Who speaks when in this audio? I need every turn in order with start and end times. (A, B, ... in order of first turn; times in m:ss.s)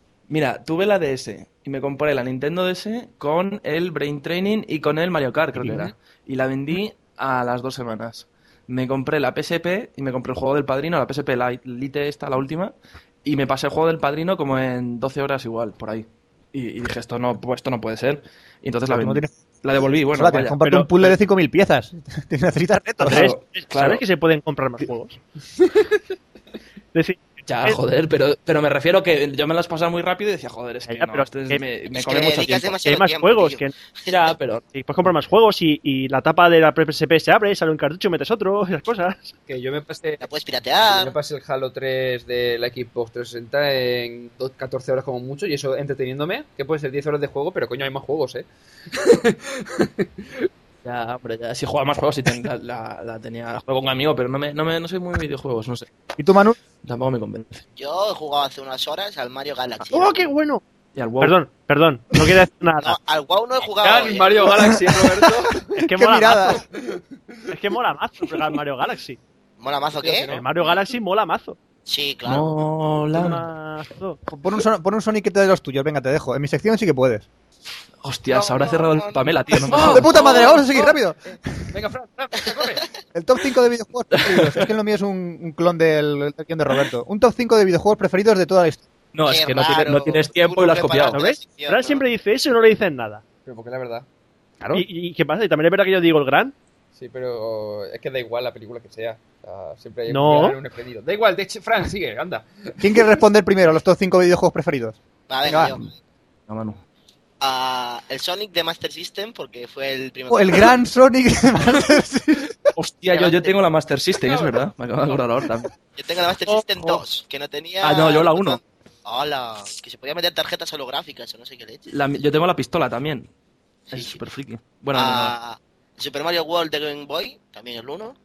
0:00.3-0:20.6 A
0:05.6-0:05.9 B
0:18.9-0:19.4 C
0:20.1-0:23.2 C
0:20.6-0:21.1 D
0:23.0-0:25.2 D
0:23.0-0:24.0 A
0:26.9-0:27.8 D
0:27.5-0:32.8 A
0:30.9-0:31.6 D
0:31.9-0:34.4 E
0:32.8-0:33.7 D
0:34.1-0:34.6 A
0:34.7-0:39.4 D
0:39.5-0:40.3 B
0:40.2-0:41.2 E
0:40.9-0:50.5 B
0:50.8-0:55.9 A
0:56.2-0:56.6 C
0:56.8-0:57.6 A
0:57.8-1:00.2 E
0:59.9-1:00.6 D
1:01.0-1:01.4 A
1:01.2-1:03.0 D
1:02.8-1:04.5 E
1:03.8-1:05.7 B
1:05.8-1:06.6 D
1:05.9-1:06.6 C
1:06.5-1:07.0 B
1:07.5-1:09.2 D
1:09.6-1:10.3 E
1:10.0-1:10.3 B
1:10.3-1:11.6 D
1:11.9-1:12.6 E
1:12.2-1:13.4 A
1:13.1-1:14.2 D
1:14.3-1:17.3 C
1:18.0-1:20.3 A
1:18.3-1:20.5 E
1:19.6-1:21.7 C
1:20.0-1:21.0 B
1:21.7-1:22.9 B
1:23.1-1:28.8 C
1:24.1-1:24.7 A
1:29.1-1:31.2 A
1:29.3-1:32.0 E
1:31.1-1:33.2 D
1:33.4-1:34.1 B
1:34.7-1:36.5 D
1:37.0-1:43.1 B
1:40.1-1:40.6 D
1:42.8-1:45.8 C
1:45.3-1:45.9 E
1:46.5-1:46.8 A
1:47.4-1:50.8 E
1:50.3-1:52.7 C
1:52.8-1:55.7 A
1:53.1-1:53.5 E
1:54.2-1:54.6 B
1:56.0-2:01.9 E
1:57.8-1:58.6 A
2:01.9-2:03.3 A
2:03.9-2:05.4 A
2:03.9-2:04.2 E
2:04.9-2:08.2 E